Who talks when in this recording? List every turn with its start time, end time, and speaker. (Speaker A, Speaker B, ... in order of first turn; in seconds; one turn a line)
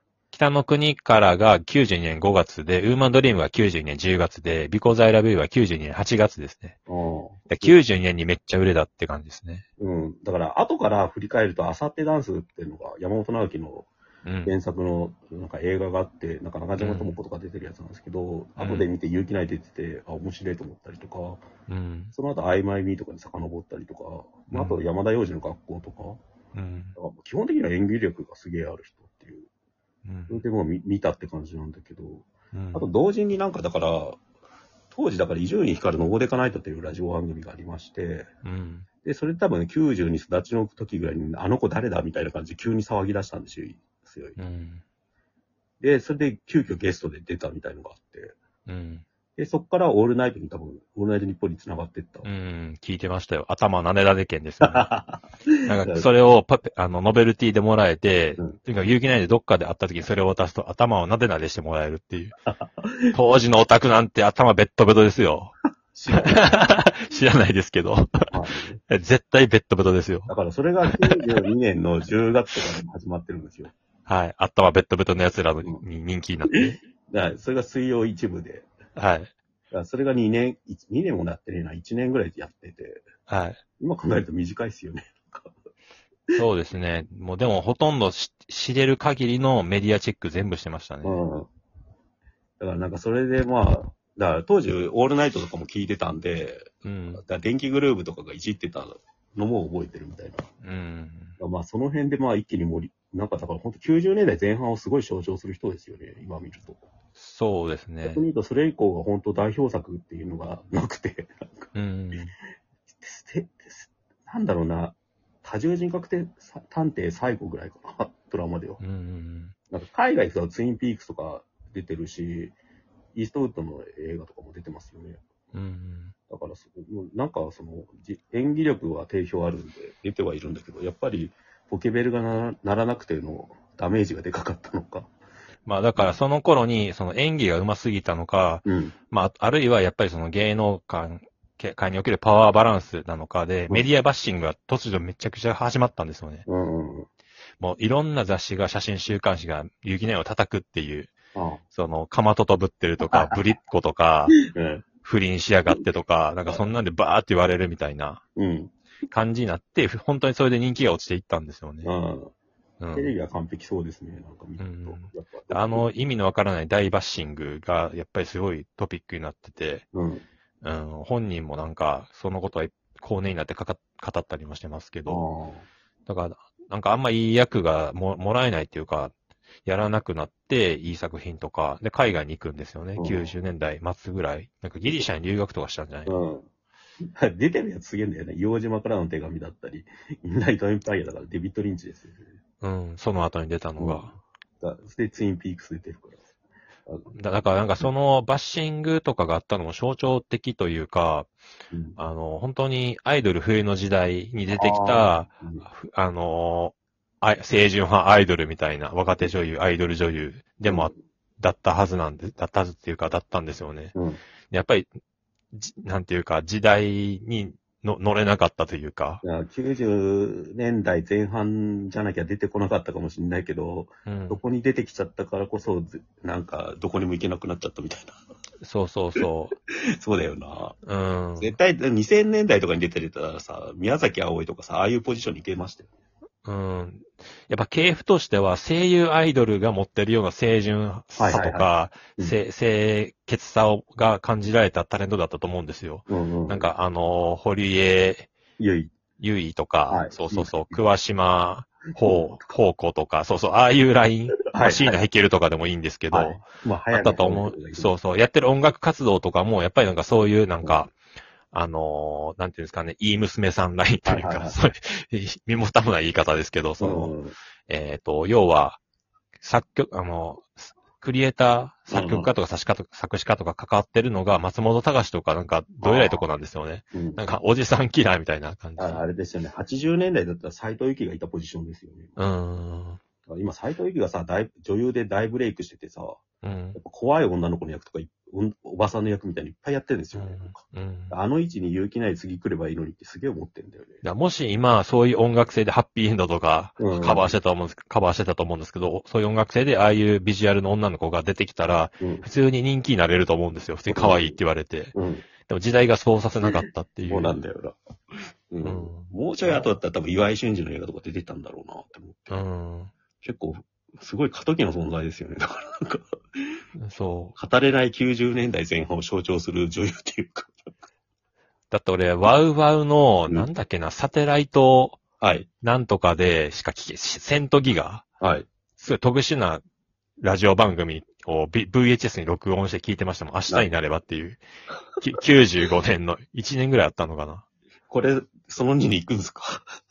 Speaker A: 0.3-6.8
Speaker B: 6.9-7.8
Speaker A: 7.5-9.6
Speaker B: 9.8-13.9
Speaker A: 14.2-14.5
Speaker B: 14.4-21.4
Speaker A: 16.8-17.1
Speaker A: 18.6-18.9
Speaker A: 21.7-22.1
Speaker B: 22.1-26.2
Speaker A: 24.5-24.8
Speaker A: 26.5-26.9
Speaker B: 26.9-29.5
Speaker A: 30.0-30.4
Speaker B: 30.3-34.2
Speaker A: 32.5-32.9
Speaker B: 34.9-38.3
Speaker A: 38.4-38.9
Speaker B: 39.0-44.4
Speaker A: 44.4-44.8
Speaker B: 45.8-48.3
Speaker A: 48.7-49.0
Speaker B: 49.4-52.3
Speaker A: 52.2-54.9
Speaker B: 54.6-56.1
Speaker A: 55.6-62.3
Speaker B: 62.5-63.1
Speaker A: 63.1-65.5
Speaker B: 65.9-66.5
Speaker A: 66.1-68.3
Speaker B: 68.3-68.8
Speaker A: 68.9-70.3
Speaker B: 70.3-73.7
Speaker A: 70.8-71.3
Speaker A: 74.0-76.8
Speaker B: 76.5-78.7
Speaker A: 79.0-79.3
Speaker B: 79.7-83.0
Speaker A: 83.3-83.6
Speaker B: 83.8-85.5
Speaker A: 86.3-91.2
Speaker B: 91.0-91.5
Speaker B: 92.6-100.5
Speaker A: 96.8-97.2
Speaker A: 100.6-101.4
Speaker B: 101.4-106.8
Speaker A: 107.2-108.2
Speaker B: 108.0-112.3
Speaker A: 111.7-112.3
Speaker B: 112.9-118.8
Speaker A: 118.8-119.5
Speaker B: 119.7-122.5
Speaker B: 123.1-125.2
Speaker A: 125.5-126.1
Speaker B: 126.3-135.1
Speaker A: 135.7-146.4
Speaker B: 138.6-138.9
Speaker B: 146.5-147.1
Speaker A: 147.6-151.1
Speaker B: 151.3-151.6
Speaker A: 151.7-154.4
Speaker B: 153.1-153.4
Speaker B: 154.4-154.8
Speaker A: 155.0-158.2
Speaker B: 158.3-158.7
Speaker A: 159.1-161.9
Speaker B: 161.8-162.3
Speaker A: 162.8-163.1
Speaker B: 162.9-165.9
Speaker A: 164.6-169.8
Speaker B: 169.9-170.2
Speaker A: 170.6-175.2
Speaker B: 175.1-175.7
Speaker A: 176.1-179.1
Speaker A: 179.6-186.2
Speaker B: 183.0-183.3
Speaker B: 186.1-186.5
Speaker B: 187.2-192.3
Speaker A: 192.6-194.1
Speaker B: 193.8-196.2
Speaker B: 196.8-197.1
Speaker A: 197.1-201.3
Speaker B: 201.7-202.0
Speaker A: 202.0-213.9
Speaker B: 204.5-205.7
Speaker B: 210.6-210.9
Speaker B: 213.9-214.2
Speaker A: 214.5-214.9
Speaker A: 215.5-219.2
Speaker B: 219.2-228.2
Speaker A: 224.1-224.4
Speaker A: 228.6-229.5
Speaker B: 230.0-230.8
Speaker A: 230.8-231.5
Speaker B: 231.4-235.9
Speaker A: 236.4-248.3
Speaker B: 241.2-242.3
Speaker B: 246.1-246.7
Speaker B: 248.6-248.9
Speaker A: 249.2-260.9
Speaker B: 249.9-250.8
Speaker B: 252.0-252.5
Speaker B: 254.5-254.9
Speaker B: 256.1-257.9
Speaker A: 261.5-267.1
Speaker B: 264.1-264.6
Speaker B: 266.8-267.3
Speaker A: 267.7-268.8
Speaker A: 269.4-279.1
Speaker B: 271.9-272.3
Speaker B: 275.8-276.2
Speaker B: 276.9-277.2
Speaker B: 278.8-282.2
Speaker A: 282.2-283.0
Speaker B: 283.2-286.2
Speaker A: 286.4-286.8
Speaker B: 286.7-294.0
Speaker A: 290.1-291.1
Speaker A: 294.0-304.9
Speaker B: 296.8-297.3
Speaker B: 303.9-304.4
Speaker B: 304.9-305.2
Speaker A: 305.5-307.4
Speaker B: 306.4-307.8
Speaker B: 308.5-312.4
Speaker A: 308.6-309.1
Speaker A: 312.3-312.9
Speaker B: 313.2-316.6
Speaker A: 316.8-317.4
Speaker B: 317.4-320.7
Speaker A: 321.7-325.0
Speaker B: 325.2-325.5
Speaker A: 325.6-328.0
Speaker B: 328.2-328.5
Speaker A: 328.8-329.6
Speaker A: 330.2-334.4
Speaker A: 335.0-337.4
Speaker B: 337.9-339.6